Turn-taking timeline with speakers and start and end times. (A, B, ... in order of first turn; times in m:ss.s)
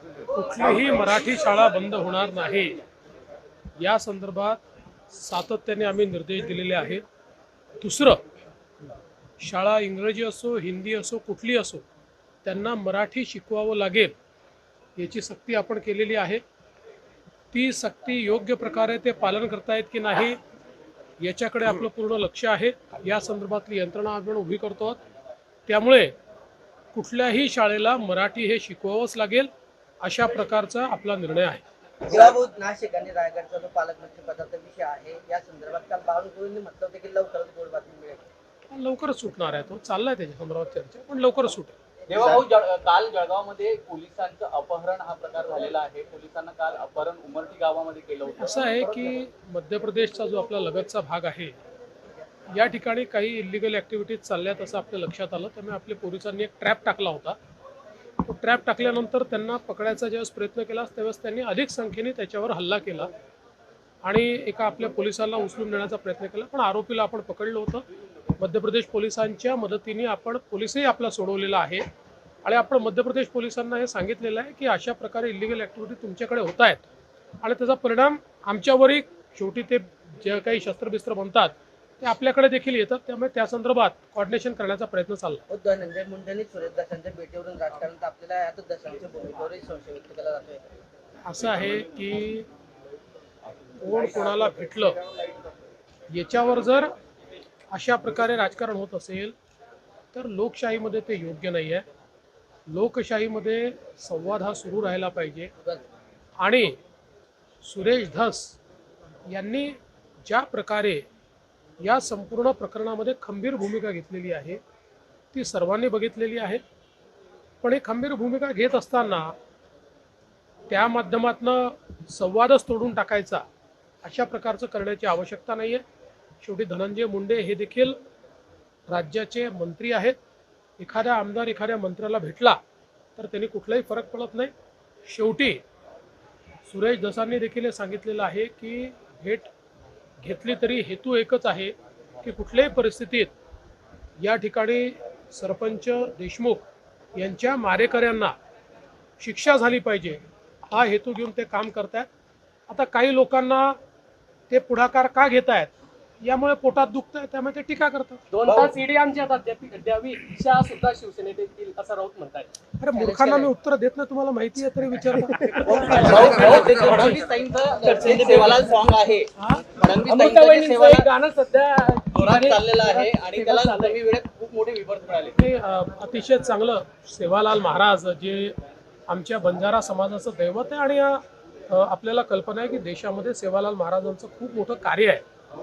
0:00.3-0:02.8 A
0:03.8-0:07.0 A
0:07.8-0:08.2 A
0:09.4-0:11.8 A
0:12.4-0:14.2 A
0:15.0-0:16.4 A
0:17.5-0:20.4 A
0:21.2-0:25.0 A
0:25.7-0:26.1 A
0:26.9-0:29.5 A
0:30.0-0:31.6 A
0:32.1-0:38.3 B
0:38.7-0:41.7 A
0:42.1-0:42.4 B
0:42.1-0:48.6 C
0:48.4-0:51.6 A
0:52.5-0:57.4 A
0:58.2-1:03.1 A
1:04.0-1:07.9 A
1:08.4-1:11.8 A
1:12.4-1:16.8 A
1:17.4-1:25.4 A
1:25.5-1:30.6 B
1:31.3-1:32.5 A
1:33.8-1:35.0 A
1:36.1-1:36.9 A
1:37.7-1:39.4 A
1:40.1-1:41.9 A
1:42.7-1:45.5 A
1:46.4-1:46.8 A
1:47.6-1:48.6 A
1:49.3-1:51.0 A
1:51.8-1:54.6 A
1:55.3-1:56.6 A
1:57.6-1:59.4 A
2:00.7-2:03.4 A
2:04.0-2:05.8 A
2:06.4-2:08.0 A
2:08.9-2:10.2 A
2:10.8-2:12.6 A
2:13.2-2:14.5 A
2:15.0-2:15.6 A
2:16.7-2:19.5 A
2:20.2-2:23.3 A
2:24.2-2:28.3 A
2:29.2-2:32.1 A
2:32.7-2:33.8 A
2:34.5-2:38.2 A
2:38.3-2:42.5 D
2:38.4-2:38.7 C
2:42.8-2:45.9 A
2:45.6-2:51.1 C
2:46.2-2:47.2 D
2:47.8-2:48.8 D
2:50.0-2:54.0 D
2:52.1-2:55.4 C
2:55.4-2:58.6 A
2:59.1-3:05.2 A